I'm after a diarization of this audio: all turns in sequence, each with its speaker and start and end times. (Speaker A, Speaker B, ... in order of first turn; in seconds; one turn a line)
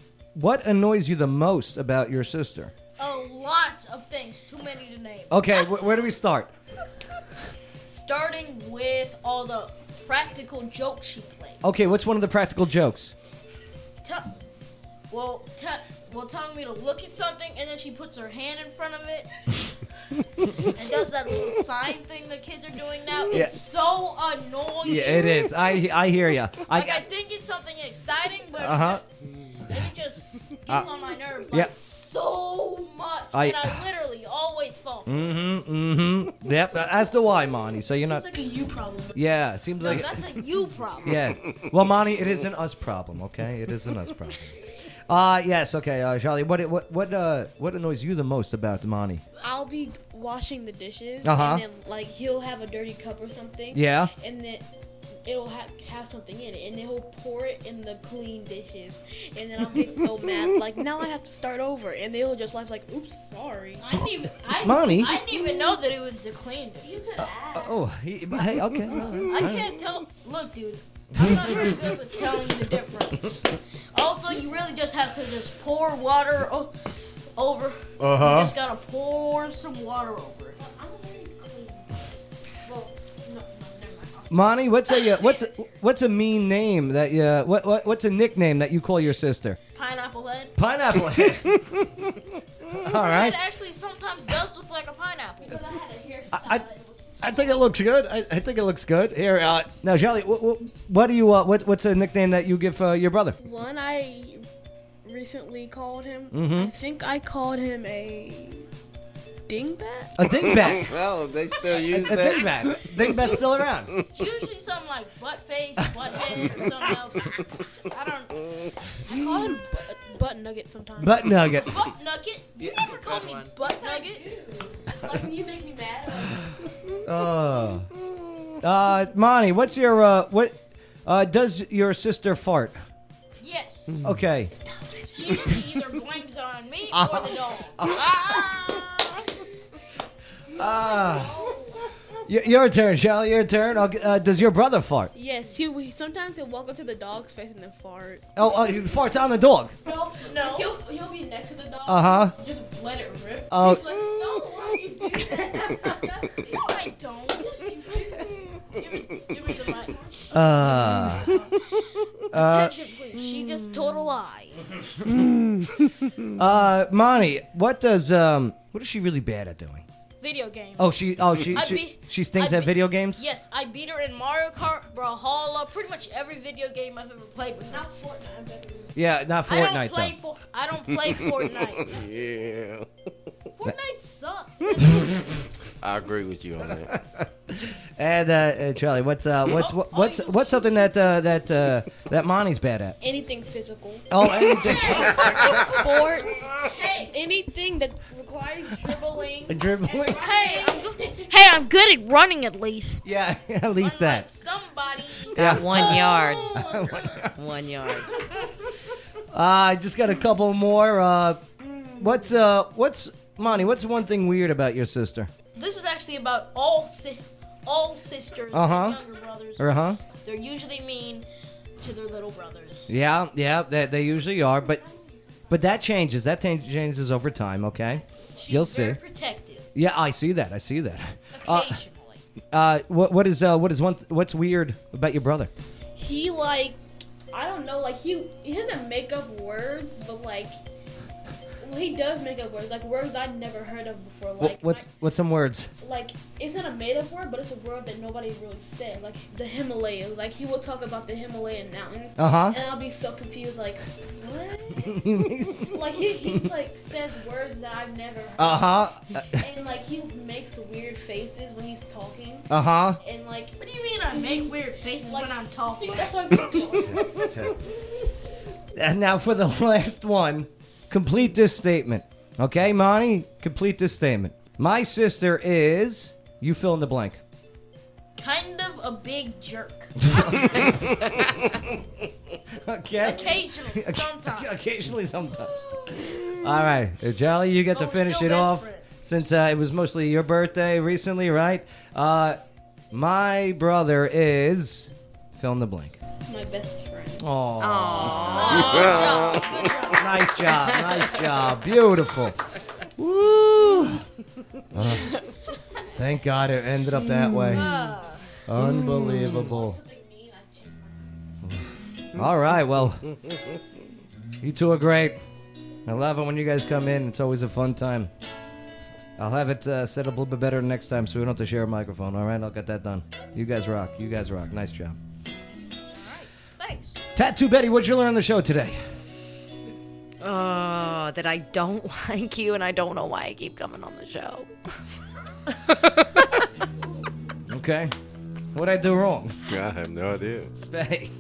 Speaker A: 0.3-2.7
Speaker B: 3.0-5.7
Speaker A: 5.3-6.5
Speaker B: 7.9-11.6
Speaker A: 11.6-13.1
Speaker B: 14.0-14.3
Speaker B: 15.1-19.3
Speaker B: 20.7-25.5
Speaker A: 23.3-23.6
Speaker A: 24.8-27.0
Speaker B: 26.7-29.1
Speaker A: 28.6-29.0
Speaker B: 29.7-35.4
Speaker A: 33.3-33.8
Speaker A: 35.1-38.2
Speaker C: 38.0-39.2
Speaker A: 39.1-40.2
Speaker B: 39.8-41.2
Speaker A: 41.0-44.5
Speaker A: 45.1-49.2
Speaker C: 49.4-54.7
Speaker A: 51.2-51.6
Speaker A: 53.7-54.1
Speaker C: 55.2-64.3
Speaker B: 64.0-67.3
Speaker A: 64.6-65.2
Speaker C: 66.8-67.8
Speaker A: 67.2-69.7
Speaker B: 69.3-76.7
Speaker A: 71.2-71.7
Speaker B: 77.4-80.6
Speaker A: 78.1-78.5
Speaker C: 80.6-85.4
Speaker A: 84.3-89.6
Speaker B: 89.7-90.5
Speaker A: 90.6-91.9
Speaker A: 92.8-93.4
Speaker B: 92.9-95.6
Speaker C: 95.4-97.7
Speaker A: 96.3-96.6
Speaker A: 97.2-103.4
Speaker C: 103.4-104.5
Speaker C: 105.0-108.7
Speaker A: 106.3-106.7
Speaker C: 109.5-110.1
Speaker A: 110.2-111.0
Speaker D: 110.6-114.0
Speaker A: 111.7-113.9
Speaker B: 114.1-118.4
Speaker C: 119.1-121.6
Speaker A: 121.0-121.8
Speaker B: 121.6-124.3
Speaker E: 122.8-123.5
Speaker C: 123.6-126.5
Speaker A: 127.0-127.9
Speaker A: 128.6-132.8
Speaker B: 133.4-134.1
Speaker A: 134.0-134.5
Speaker B: 135.1-137.9
Speaker A: 136.9-138.8
Speaker A: 140.5-141.3
Speaker C: 140.6-141.8
Speaker A: 142.3-145.1
Speaker C: 145.2-148.3
Speaker A: 148.4-149.7
Speaker C: 149.8-158.4
Speaker B: 150.3-150.8
Speaker A: 151.9-152.3
Speaker A: 153.5-154.0
Speaker B: 156.5-157.7
Speaker B: 158.8-161.4
Speaker A: 160.3-161.4
Speaker A: 162.3-162.7
Speaker B: 162.3-164.6
Speaker A: 166.4-169.8
Speaker B: 170.2-177.8
Speaker A: 170.8-173.2
Speaker C: 177.6-179.0
Speaker A: 179.0-180.2
Speaker B: 179.4-182.0
Speaker D: 181.8-182.9
Speaker B: 183.6-185.4
Speaker D: 185.8-187.0
Speaker A: 187.6-193.0
Speaker B: 189.5-191.0
Speaker C: 193.0-201.3
Speaker A: 194.1-195.6
Speaker D: 195.2-195.5
Speaker B: 196.7-197.1
Speaker B: 199.4-203.2
Speaker A: 199.5-200.2
Speaker A: 203.1-204.3
Speaker B: 203.8-205.7
Speaker E: 205.3-206.6
Speaker A: 205.3-207.3
Speaker E: 207.3-208.1
Speaker A: 209.3-211.4
Speaker A: 212.0-215.3
Speaker B: 215.6-221.3
Speaker A: 218.5-219.0
Speaker A: 219.6-220.0
Speaker B: 221.8-222.9
Speaker A: 222.9-224.8
Speaker A: 225.5-229.0
Speaker B: 228.4-229.7
Speaker A: 229.8-231.8
Speaker B: 231.3-232.2
Speaker A: 232.5-235.5
Speaker C: 236.0-236.8
Speaker C: 237.3-240.6
Speaker C: 241.6-244.9
Speaker A: 244.4-245.7
Speaker C: 245.8-258.8
Speaker A: 252.2-252.6
Speaker A: 254.9-255.7
Speaker A: 258.4-259.2
Speaker C: 259.3-262.5
Speaker A: 262.5-263.0
Speaker C: 263.0-267.6
Speaker B: 263.6-266.2
Speaker A: 268.8-277.2
Speaker B: 278.2-280.8
Speaker A: 280.2-280.6
Speaker A: 282.6-292.4
Speaker B: 283.0-284.6
Speaker B: 287.7-288.9
Speaker A: 292.9-296.0
Speaker C: 296.3-297.2
Speaker A: 297.2-298.4
Speaker E: 297.6-298.8
Speaker B: 298.3-300.4
Speaker D: 298.6-299.6
Speaker A: 300.0-302.4
Speaker E: 300.6-301.4
Speaker A: 303.0-304.0
Speaker A: 304.7-305.1
Speaker A: 305.9-307.8
Speaker B: 307.4-308.3
Speaker A: 308.5-309.8
Speaker C: 309.4-311.2
Speaker A: 311.4-313.0
Speaker A: 314.4-315.2
Speaker A: 315.9-318.1
Speaker A: 319.2-325.0
Speaker B: 325.9-327.0
Speaker A: 327.2-328.8
Speaker E: 330.2-334.5
Speaker A: 337.5-337.9
Speaker A: 338.5-339.4
Speaker D: 339.5-340.5
Speaker A: 340.7-341.1